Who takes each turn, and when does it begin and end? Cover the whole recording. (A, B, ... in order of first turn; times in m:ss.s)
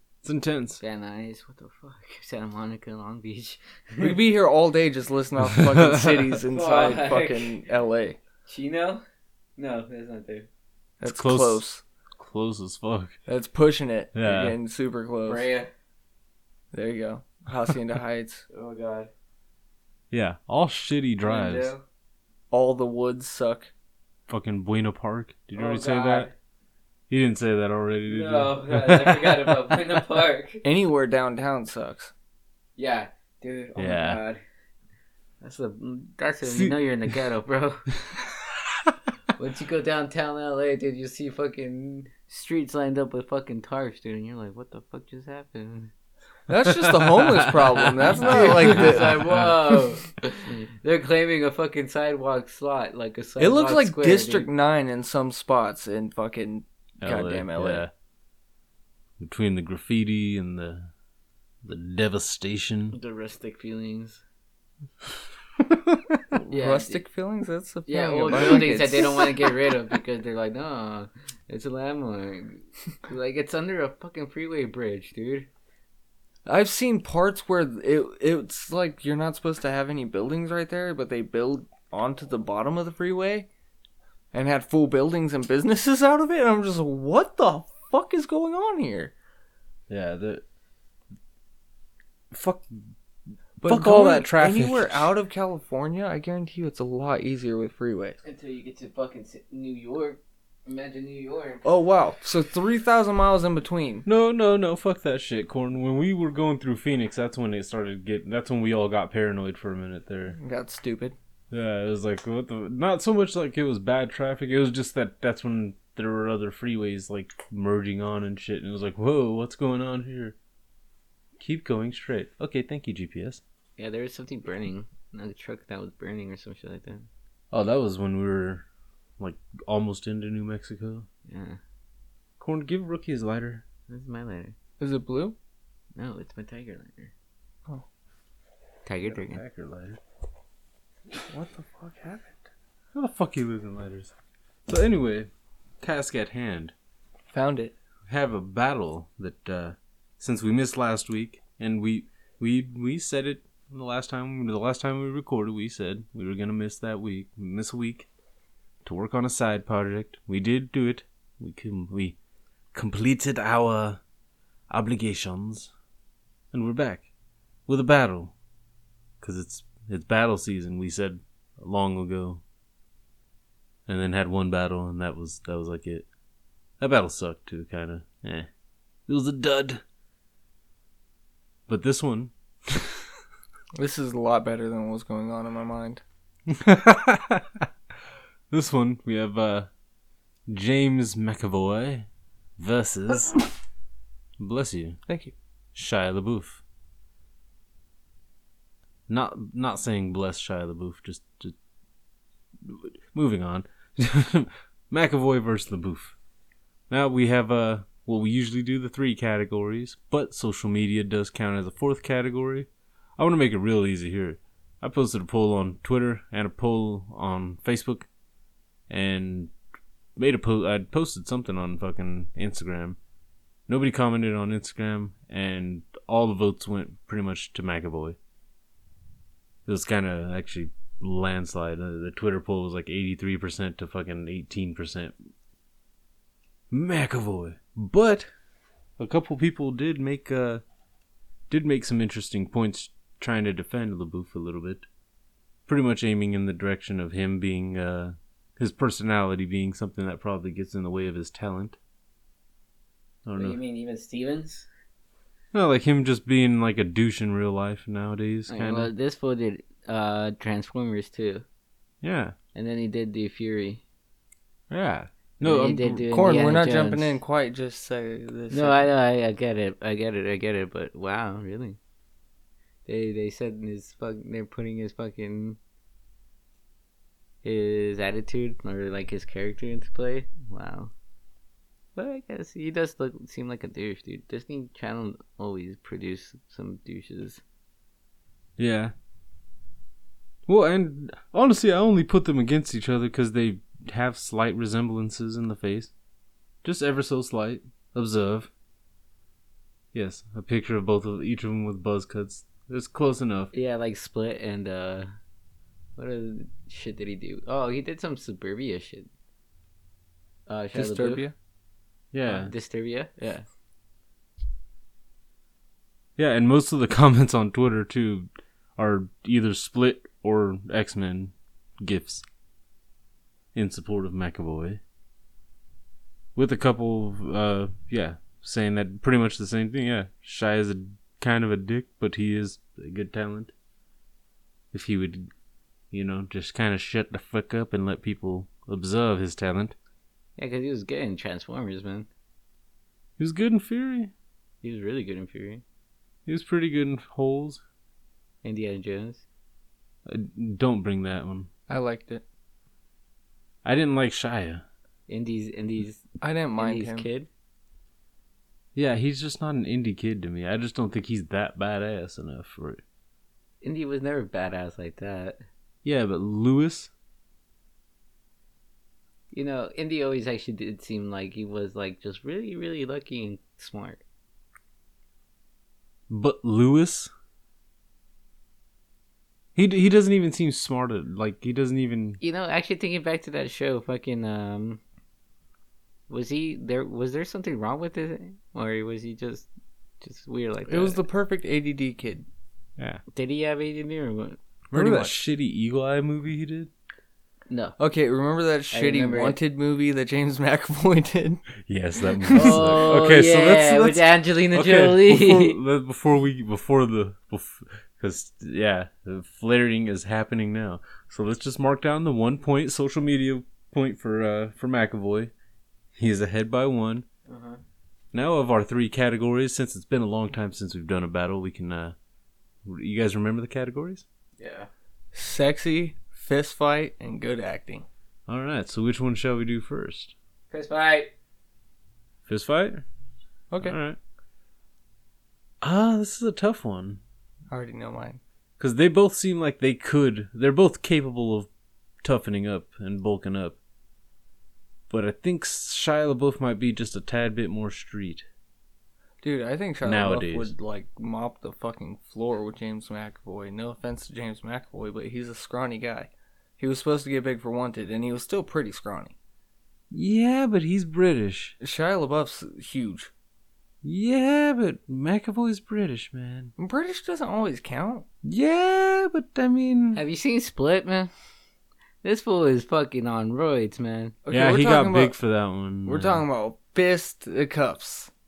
0:00.2-0:00.8 A
0:00.8-0:04.2 B
0:04.0-0:08.2 C
0:05.5-0:06.1 A
0:06.5-0:07.6 B
0:08.5-0:09.0 B
0:09.6-0:10.5 B
0:11.0-0:11.8 C
0:11.1-0:11.6 A
0:12.2-0:13.2 A
0:13.3-0:15.5 C
0:14.2-0:14.6 A
0:15.3-0:15.7 B
0:16.7-0:18.4 C
0:18.5-0:19.1 B
0:20.1-0:21.7 A
0:21.2-0:21.8 B
0:22.5-0:23.7 C
0:24.3-0:26.3 A
0:25.6-0:26.3 B
0:27.1-0:29.8 A
0:28.1-0:30.6 B
0:30.6-0:32.1 C
0:32.8-0:34.4 B
0:33.8-0:34.2 A
0:35.4-0:37.9 B
0:36.4-0:37.1 A
0:39.4-0:45.9 B
0:46.5-0:49.3 C
0:46.9-0:49.8 A
0:48.1-0:54.5 B
0:53.4-0:57.8 C
0:57.0-0:57.9 A
0:59.2-1:00.9 A
1:01.6-1:03.0 A
1:02.9-1:04.2 B
1:06.4-1:09.5 C
1:06.5-1:07.0 B
1:07.9-1:15.5 B
1:08.4-1:08.6 A
1:16.5-1:23.5 C
1:24.3-1:29.1 C
1:29.9-1:30.4 A
1:32.3-1:32.7 A
1:33.6-1:35.1 A
1:33.6-1:38.2 C
1:38.2-1:41.7 B
1:41.6-1:44.1 C
1:44.1-1:50.4 A
1:50.4-1:51.2 C
1:51.5-2:00.4 A
2:01.4-2:03.4 A
2:03.8-2:07.1 B
2:07.5-2:08.6 A
2:09.2-2:11.1 A
2:11.3-2:11.6 B
2:12.4-2:13.6 A
2:13.9-2:14.6 B
2:14.8-2:15.4 C
2:16.0-2:17.1 B
2:18.9-2:19.4 B
2:19.1-2:20.0 A
2:21.3-2:22.5 C
2:22.9-2:24.1 A
2:24.7-2:25.3 A
2:25.8-2:26.7 A
2:27.3-2:27.8 C
2:28.1-2:38.1 A
2:38.8-2:42.2 A
2:42.7-2:44.0 A
2:44.7-2:45.7 A
2:46.5-2:47.1 A
2:47.7-2:48.3 A
2:49.2-2:52.4 A
2:53.9-2:56.1 A
2:56.8-2:58.5 A
2:59.1-2:59.8 A
3:01.7-3:03.0 A
3:03.8-3:06.0 C
3:06.5-3:07.7 A
3:08.5-3:09.7 A
3:10.5-3:12.1 A
3:12.6-3:13.5 A
3:14.4-3:15.0 A
3:15.1-3:15.3 C
3:15.8-3:16.6 A
3:19.1-3:21.5 A
3:22.7-3:26.2 A
3:26.9-3:32.7 A
3:33.2-3:38.1 A
3:38.9-3:39.5 A
3:40.2-3:43.0 A
3:43.7-3:48.2 A
3:49.7-3:55.1 A
3:56.7-3:58.3 A
3:59.0-4:00.6 A
4:01.5-4:04.8 A
4:05.7-4:11.8 A
4:13.3-4:13.6 A
4:13.4-4:14.7 B
4:15.5-4:18.9 A
4:18.5-4:21.4 B
4:22.0-4:22.4 A
4:22.6-4:23.8 B
4:24.7-4:26.0 A
4:25.4-4:27.2 B
4:26.1-4:28.9 C
4:28.5-4:31.8 B
4:32.9-4:35.6 B
4:37.4-4:40.9 B
4:42.0-4:47.4 B
4:48.6-4:48.9 A
4:50.5-4:55.9 A
4:56.6-4:58.5 A
4:59.9-5:03.5 A
5:03.5-5:05.1 B
5:06.0-5:09.1 B
5:10.5-5:11.2 B
5:10.7-5:11.4 C
5:12.1-5:12.5 A
5:12.3-5:13.4 B
5:16.2-5:22.2 A
5:23.5-5:24.8 A
5:26.4-5:33.5 A
5:34.7-5:35.3 A
5:35.9-5:39.7 A
5:40.4-5:42.1 B
5:43.2-5:44.1 A
5:44.6-5:45.6 B
5:46.3-5:47.6 A
5:48.4-5:49.2 B
5:50.1-5:51.5 A
5:51.7-5:52.2 C
5:53.6-5:54.6 A
5:55.1-5:56.0 B
5:56.2-5:57.1 C
5:56.6-5:57.3 B
5:58.8-6:02.8 A
6:03.6-6:05.4 B
6:05.8-6:06.9 A
6:09.3-6:14.0 B
6:16.1-6:17.1 A
6:19.6-6:22.2 A
6:22.2-6:24.8 B
6:26.1-6:29.5 B
6:30.0-6:31.0 B
6:30.7-6:32.3 C
6:33.1-6:34.4 B
6:34.7-6:35.2 C
6:34.7-6:36.7 A
6:37.5-6:37.8 B
6:37.8-6:41.4 C
6:38.7-6:39.4 B
6:41.7-6:55.3 A
6:42.2-6:42.7 C
6:42.3-6:45.6 B
6:56.0-6:57.0 A
6:57.3-6:57.6 B
6:58.1-7:02.0 A
7:02.7-7:04.0 A
7:04.4-7:04.7 B
7:05.1-7:07.8 C
7:08.3-7:10.2 A
7:10.5-7:11.1 B
7:12.3-7:12.8 A
7:13.5-7:13.8 C
7:13.6-7:14.0 A
7:15.6-7:17.0 A
7:17.5-7:18.2 C
7:18.6-7:21.5 A
7:22.0-7:23.6 A
7:24.9-7:28.2 A
7:29.2-7:39.2 C
7:29.8-7:30.5 A
7:39.9-7:41.6 A
7:41.6-7:43.1 C
7:43.8-7:46.5 A
7:46.6-7:48.1 C
7:48.2-7:50.0 A
7:49.9-7:51.1 B
7:52.0-7:54.2 B
7:54.2-7:55.2 C
7:54.3-7:56.2 A
7:55.8-7:58.1 C